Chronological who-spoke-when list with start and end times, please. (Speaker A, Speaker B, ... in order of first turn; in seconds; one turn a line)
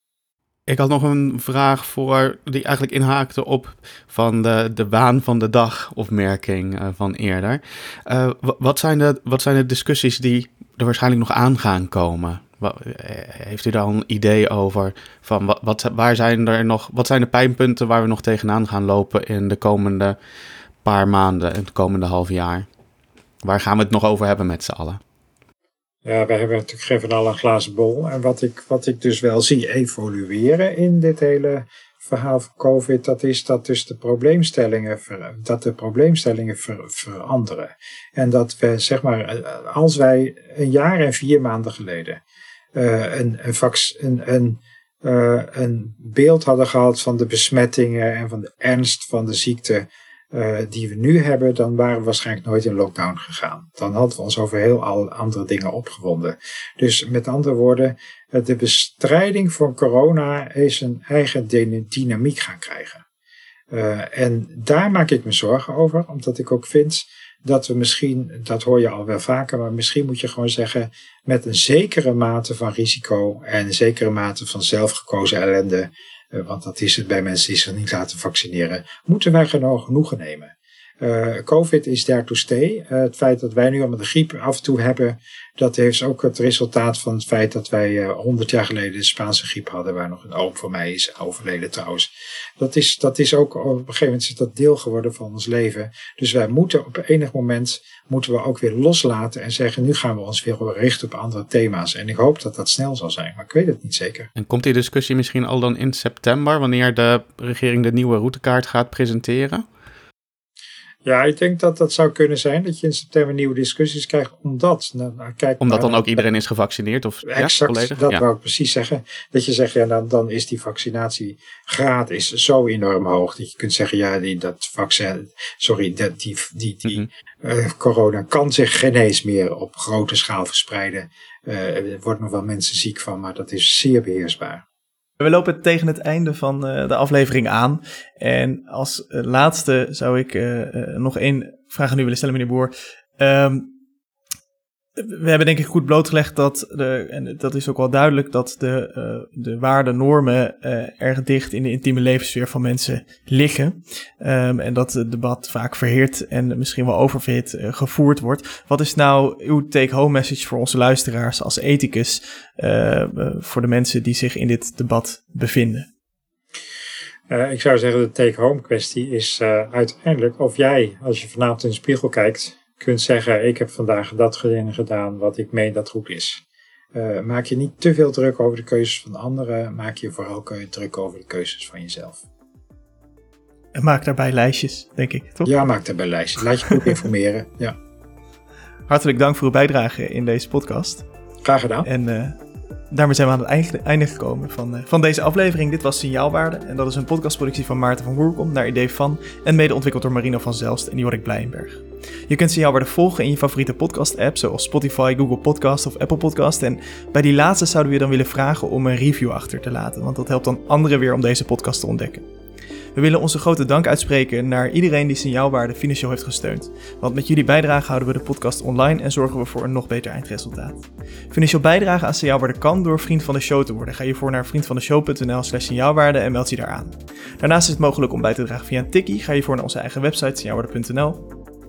Speaker A: 0.7-20.2
Speaker A: 20.8-22.7
Speaker A: 23.4-25.0
Speaker B: 26.1-42.2
Speaker B: 42.8-63.0
Speaker B: 63.7-104.3
Speaker A: 104.4-109.7
Speaker B: 111.0-116.2
Speaker A: 115.6-118.2
Speaker B: 117.3-134.6
Speaker C: 135.2-143.7
Speaker C: 145.0-165.9
Speaker B: 167.3-176.4
Speaker B: 176.9-182.2
Speaker C: 183.8-185.5
Speaker B: 185.5-187.8
Speaker C: 188.9-191.1
Speaker B: 191.4-191.9
Speaker C: 191.8-212.3
Speaker C: 212.9-231.2